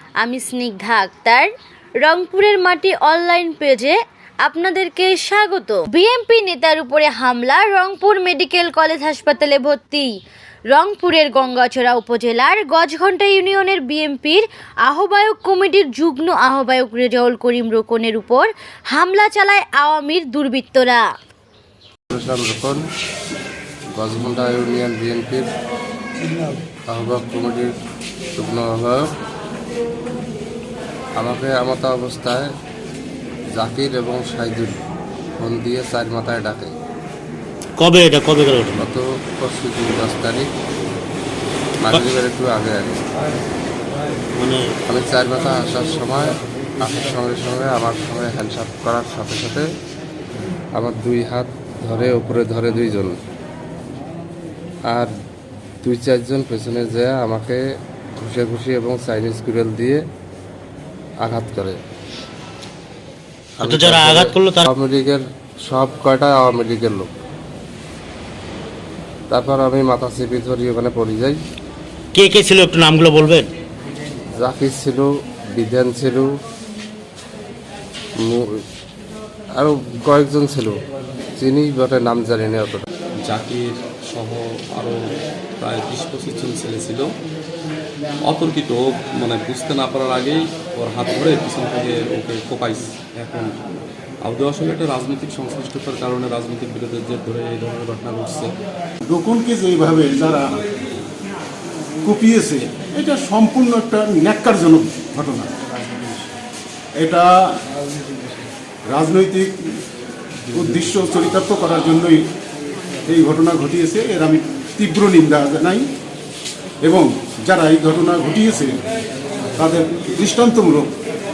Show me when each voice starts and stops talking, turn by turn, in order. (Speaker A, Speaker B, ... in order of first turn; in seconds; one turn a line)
Speaker A: 0.2-1.5
Speaker A: 2.0-10.1
Speaker A: 10.7-21.0
Speaker B: 22.1-22.8
Speaker B: 23.9-25.5
Speaker B: 26.9-27.7
Speaker B: 28.4-29.1
Speaker B: 31.2-32.5
Speaker B: 33.5-34.8
Speaker B: 35.4-36.7
Speaker C: 37.8-38.9
Speaker B: 38.8-40.5
Speaker B: 41.8-43.0
Speaker C: 44.4-44.7
Speaker B: 44.9-49.6
Speaker B: 50.8-53.2
Speaker B: 55.8-57.6
Speaker B: 58.2-60.0
Speaker B: 61.2-61.8
Speaker C: 63.6-64.7
Speaker B: 63.6-67.1
Speaker B: 69.3-71.4
Speaker C: 72.1-73.5
Speaker B: 74.4-76.3
Speaker B: 79.6-80.7
Speaker B: 81.4-82.8
Speaker D: 83.2-84.9
Speaker D: 85.6-87.1
Speaker D: 88.3-93.5
Speaker D: 94.2-98.5
Speaker E: 99.0-100.6
Speaker E: 102.0-106.1
Speaker E: 107.0-107.3
Speaker E: 108.9-109.5
Speaker E: 110.5-112.2
Speaker E: 113.1-115.9
Speaker E: 116.8-118.8
Speaker E: 119.5-120.9